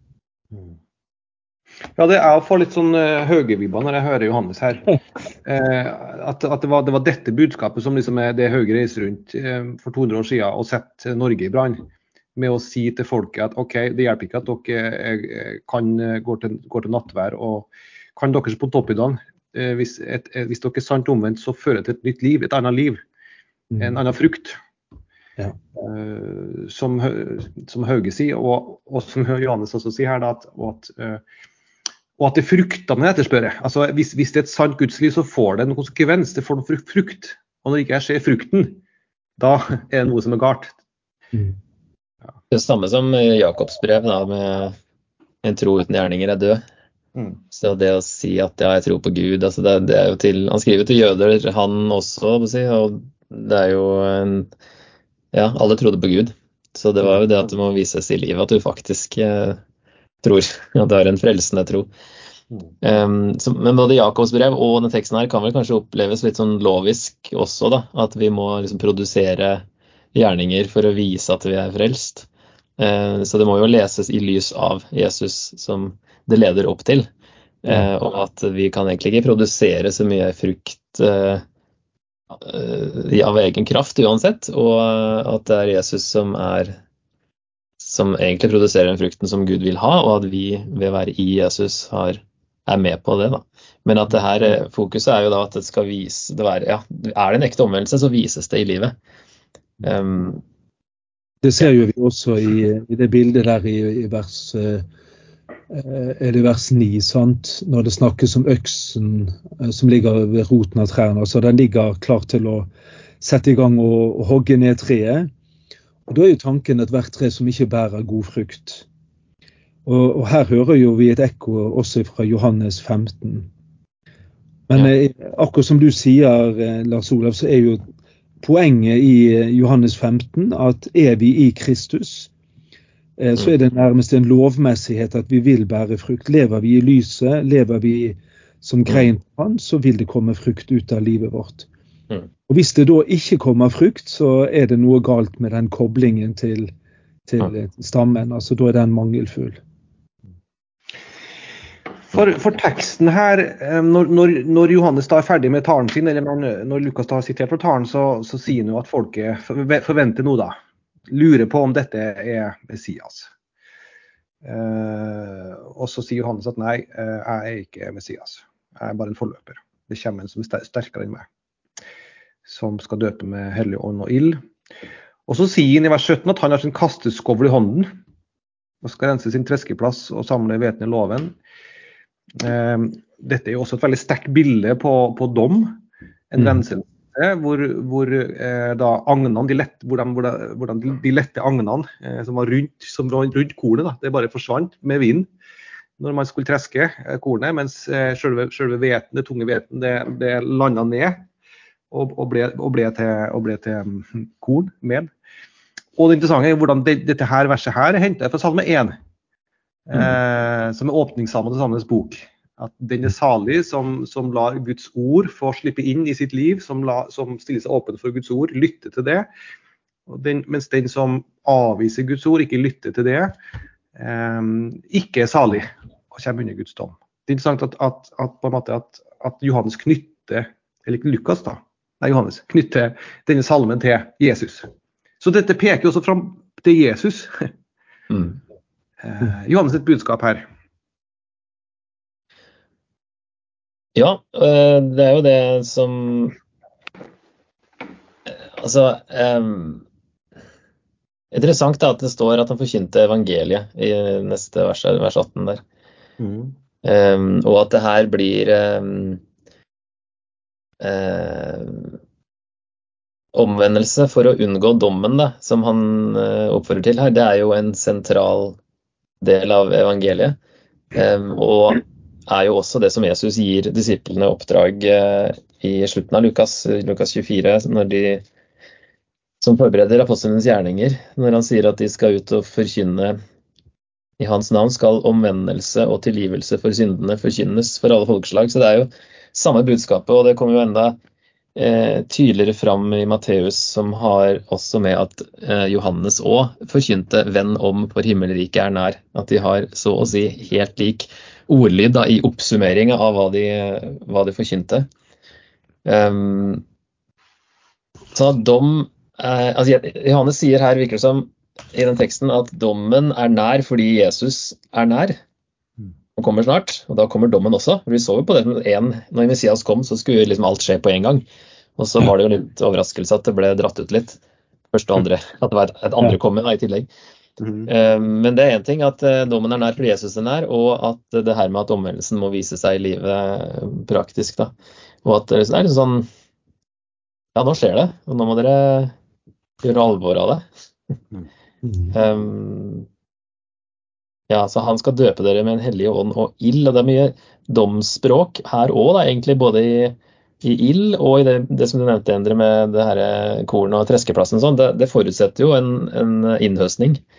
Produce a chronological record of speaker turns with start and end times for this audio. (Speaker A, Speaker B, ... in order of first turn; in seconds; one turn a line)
Speaker A: 1.9-11.8
Speaker A: 12.3-23.0
Speaker B: 23.7-24.0
Speaker A: 23.8-24.6
Speaker A: 25.8-31.2
Speaker A: 32.2-38.8
Speaker A: 39.4-40.7
Speaker C: 42.5-44.7
Speaker C: 45.4-46.6
Speaker A: 47.1-47.4
Speaker C: 47.5-54.5
Speaker C: 55.3-59.6
Speaker C: 60.2-61.9
Speaker C: 62.8-72.3
Speaker C: 72.8-77.1
Speaker C: 77.6-81.4
Speaker C: 82.3-86.8
Speaker C: 87.8-99.0
Speaker C: 99.8-100.4
Speaker B: 101.4-104.8
Speaker B: 105.7-112.7
Speaker B: 113.2-115.3
Speaker B: 116.1-118.8
Speaker B: 119.8-123.5
Speaker B: 124.7-127.8
Speaker B: 128.4-132.3
Speaker B: 133.2-141.7
Speaker B: 142.5-146.7
Speaker B: 147.3-149.6
Speaker A: 152.1-160.5
Speaker A: 161.1-163.3
Speaker A: 164.4-171.3
Speaker A: 172.4-174.4
Speaker A: 175.3-177.9
Speaker A: 178.8-181.3
Speaker A: 182.4-185.8
Speaker A: 186.3-195.3
Speaker A: 196.0-201.3
Speaker A: 201.9-205.1
Speaker A: 206.0-209.0
Speaker A: 209.9-219.3
Speaker A: 220.1-223.3
Speaker A: 223.9-234.7
Speaker A: 235.2-237.5
Speaker C: 238.1-238.3
Speaker A: 239.0-240.4
Speaker C: 243.9-246.3
Speaker C: 248.3-249.8
Speaker C: 251.3-255.6
Speaker A: 256.2-256.6
Speaker C: 256.8-259.2
Speaker C: 260.8-262.0
Speaker C: 263.3-268.6
Speaker C: 269.2-270.4
Speaker C: 270.9-278.2
Speaker C: 279.4-283.2
Speaker C: 284.2-291.0
Speaker C: 291.6-304.9
Speaker C: 305.8-306.6
Speaker C: 308.1-315.2
Speaker C: 316.2-321.2
Speaker C: 321.8-324.2
Speaker C: 324.7-326.9
Speaker A: 327.4-327.7
Speaker C: 327.7-334.5
Speaker C: 335.0-336.1
Speaker C: 337.3-338.9
Speaker C: 339.6-340.4
Speaker B: 341.6-341.9
Speaker C: 341.9-342.9
Speaker C: 344.3-357.0